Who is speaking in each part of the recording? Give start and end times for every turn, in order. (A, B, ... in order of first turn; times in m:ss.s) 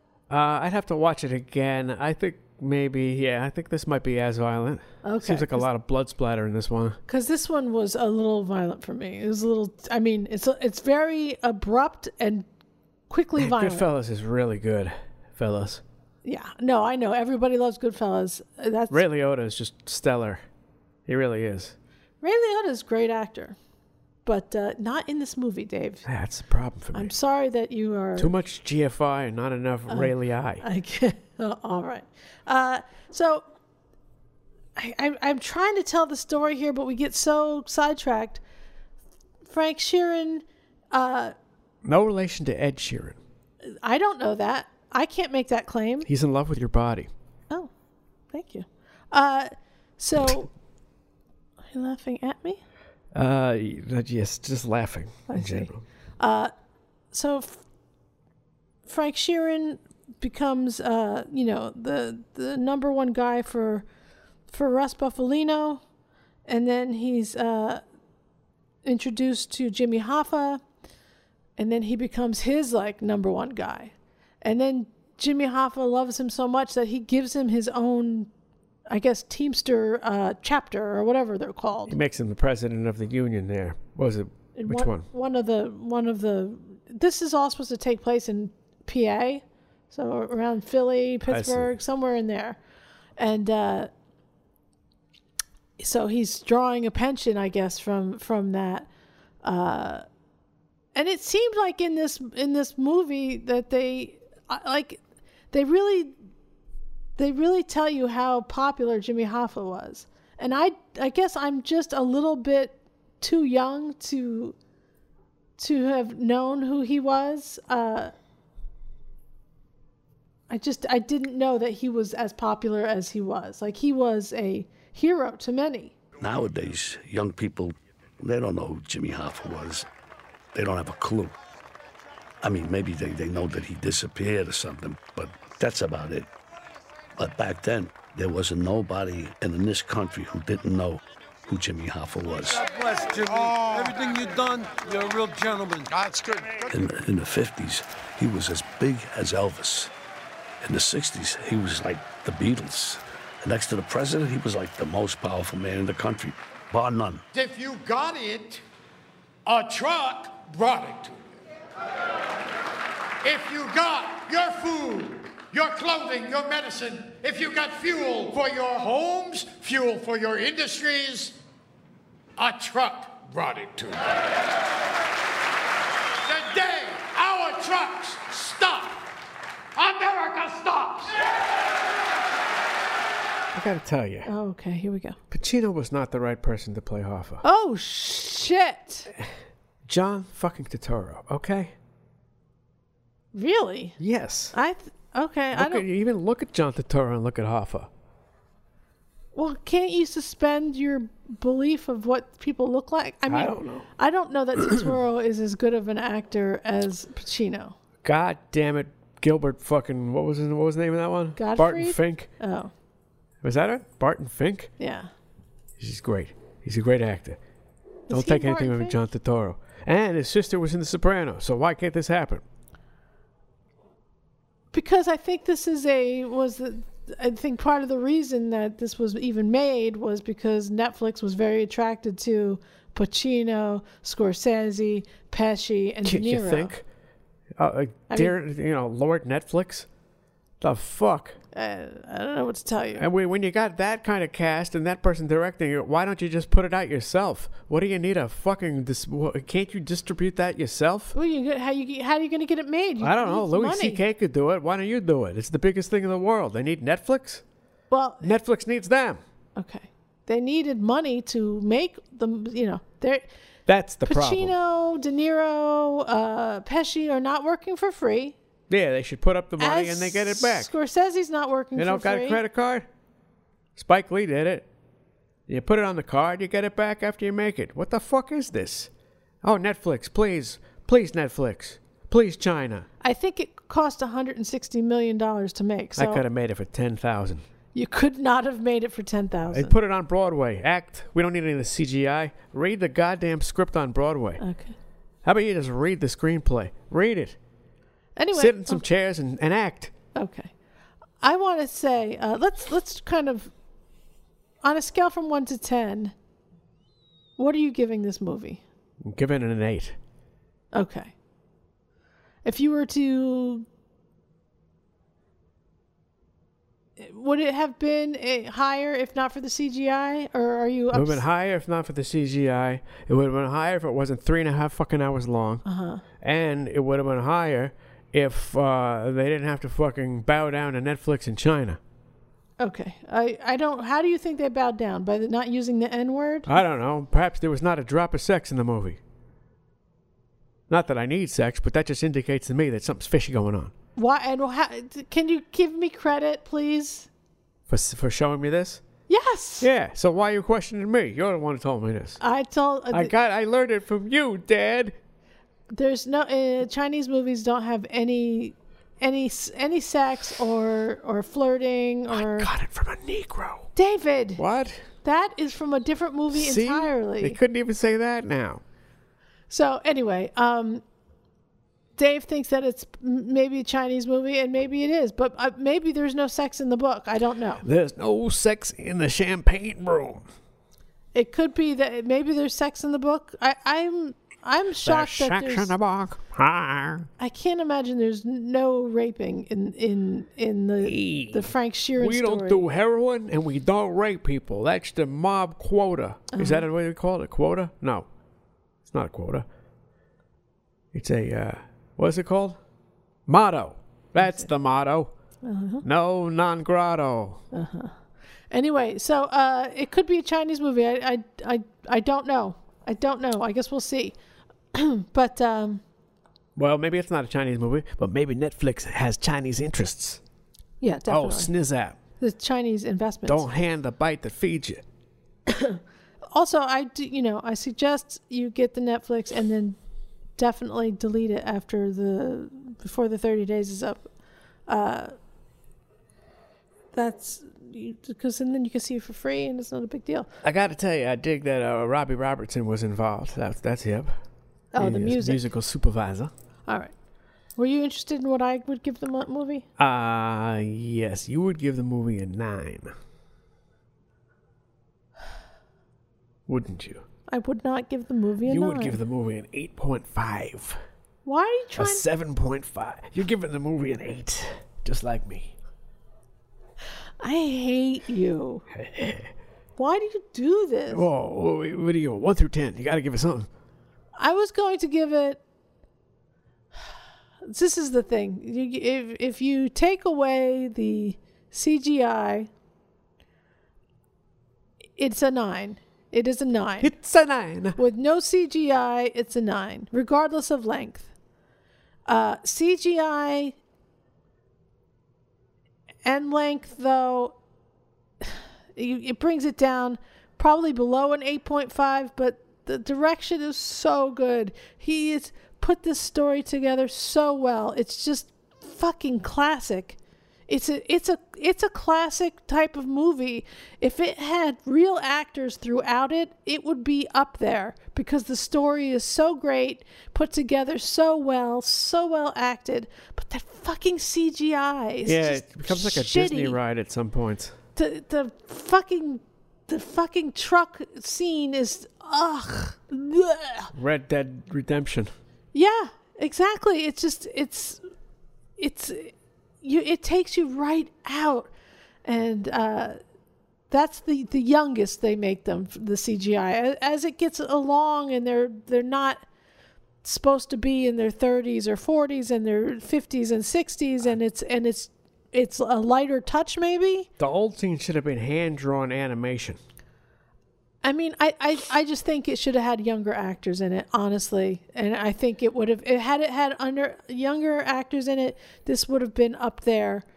0:00.3-0:07.0 A
0:05.0-0:05.7 B
0:07.1-0:12.5 B
0:13.1-0:13.9 B
0:13.4-0:15.8 A
0:16.2-0:19.0 B
0:18.9-0:20.4 A
0:21.1-0:21.8 A
0:22.2-0:23.6 B
0:24.3-0:26.1 B
0:26.1-0:27.1 A
0:26.9-0:28.3 B
0:28.2-0:30.6 A
0:29.9-0:33.4 B
0:34.8-0:38.4 B
0:39.5-0:41.4 B
0:41.8-0:43.2 A
0:43.6-0:46.1 B
0:46.1-0:47.1 A
0:48.3-0:50.5 B
0:51.7-0:52.6 B
0:53.1-0:55.8 A
0:55.3-0:56.5 B
0:57.1-0:57.6 B
0:58.9-1:03.8 B
1:04.5-1:05.8 B
1:06.5-1:07.8 B
1:08.8-1:10.6 B
1:11.6-1:18.3 B
1:18.9-1:22.0 B
1:21.9-1:25.1 A
1:24.6-1:32.6 B
1:31.3-1:31.7 A
1:33.2-1:33.9 B
1:35.8-1:38.9 B
1:39.4-1:40.0 B
1:40.9-1:45.0 B
1:45.5-1:46.2 B
1:47.2-1:54.6 B
1:55.6-1:58.1 B
2:00.5-2:05.9 B
2:06.2-2:09.9 C
2:10.5-2:11.4 C
2:12.4-2:16.3 C
2:17.2-2:22.6 C
2:22.6-2:25.9 D
2:23.4-2:23.9 E
2:26.0-2:26.6 E
2:26.7-2:29.9 C
2:30.6-2:37.2 C
2:37.3-2:38.6 E
2:39.5-2:41.1 E
2:43.2-2:51.4 E
2:52.4-2:54.2 E
2:56.2-2:59.1 E
2:59.8-3:01.2 E
3:03.5-3:04.3 A
3:04.3-3:05.2 B
3:05.3-3:07.4 A
3:07.4-3:09.1 B
3:09.8-3:11.7 A
3:13.3-3:14.0 B
3:14.0-3:14.6 A
3:14.5-3:15.9 B
3:15.5-3:17.9 A
3:19.3-3:27.8 B
3:23.3-3:23.9 A
3:28.0-3:32.3 A
3:31.4-3:32.7 B
3:33.4-3:34.7 A
3:34.8-3:35.1 B
3:35.8-3:37.4 A
3:38.1-3:39.0 B
3:38.1-3:42.4 A
3:44.7-3:56.7 B
3:56.0-3:56.8 A
3:57.6-3:59.9 A
4:00.6-4:01.4 A
4:01.5-4:03.0 B
4:03.0-4:11.2 A
4:11.1-4:14.0 B
4:13.0-4:17.4 A
4:17.9-4:18.3 B
4:18.2-4:19.2 A
4:19.6-4:23.3 B
4:23.7-4:24.5 A
4:24.0-4:28.4 B
4:28.7-4:30.7 A
4:29.6-4:32.4 B
4:31.8-4:32.9 A
4:33.8-4:34.7 A
4:35.5-4:38.9 A
4:39.4-4:42.9 A
4:43.0-4:46.2 B
4:46.0-4:47.4 A
4:47.8-4:49.7 B
4:49.5-4:54.4 A
4:54.4-4:54.8 B
4:55.2-4:57.4 A
4:58.2-4:58.8 B
4:58.3-4:59.9 A
5:00.2-5:00.5 B
5:01.2-5:03.5 B
5:04.6-5:06.2 B
5:07.4-5:08.6 B
5:09.0-5:10.0 A
5:10.7-5:11.1 B
5:12.4-5:13.7 B
5:17.0-5:21.2 B
5:20.9-5:25.6 A
5:25.6-5:26.0 B
5:26.2-5:31.8 A
5:32.6-5:36.5 B
5:36.5-5:39.0 A
5:40.7-5:43.7 A
5:44.0-5:47.1 B
5:47.7-5:48.8 A
5:49.1-5:49.7 B
5:49.6-5:52.2 A
5:52.2-5:53.1 B
5:52.9-5:55.0 A
5:55.7-6:02.5 B
6:02.1-6:03.7 A
6:03.8-6:04.4 B
6:04.4-6:04.8 A
6:05.0-6:07.4 B
6:06.3-6:08.6 A
6:09.5-6:10.8 B
6:12.0-6:17.6 B
6:17.6-6:20.3 A
6:21.1-6:25.8 B
6:24.8-6:27.1 A
6:27.2-6:32.6 B
6:30.8-6:38.1 A
6:36.3-6:36.7 B
6:38.9-6:39.5 A
6:40.9-6:42.6 A
6:43.3-6:45.1 A
6:45.4-6:45.8 B
6:45.8-6:47.4 A
6:47.5-6:47.9 B
6:48.5-6:54.2 B
6:54.7-6:55.8 B
6:56.6-7:00.2 A
7:00.8-7:01.5 B
7:01.1-7:02.0 A
7:02.2-7:03.5 B
7:03.3-7:04.8 A
7:05.5-7:05.8 B
7:06.3-7:09.8 B
7:10.4-7:14.1 B
7:14.7-7:15.2 B
7:16.9-7:20.3 B
7:20.4-7:24.2 A
7:24.7-7:25.4 B
7:24.8-7:26.3 A
7:26.7-7:26.9 B
7:27.6-7:29.7 B
7:29.8-7:32.9 A
7:36.5-7:37.0 A
7:37.3-7:39.0 B
7:38.5-7:40.8 A
7:41.2-7:42.0 B
7:41.8-7:45.5 A
7:47.2-7:48.6 B
7:48.7-7:49.3 A
7:49.8-7:51.1 B
7:50.9-7:53.5 A
7:54.2-7:55.4 B
7:57.4-8:02.5 B
8:05.0-8:06.9 B
8:06.8-8:07.8 A
8:07.8-8:11.1 B
8:12.1-8:13.6 B
8:16.0-8:17.4 B
8:18.2-8:46.6 B
8:45.1-8:47.6 A
8:47.8-8:53.7 B
8:53.7-8:55.1 A
8:55.5-8:57.8 B
8:58.6-9:01.5 B
9:02.0-9:03.0 B
9:03.7-9:09.2 B
9:10.0-9:17.1 B
9:17.2-9:19.6 A
9:20.8-9:30.0 B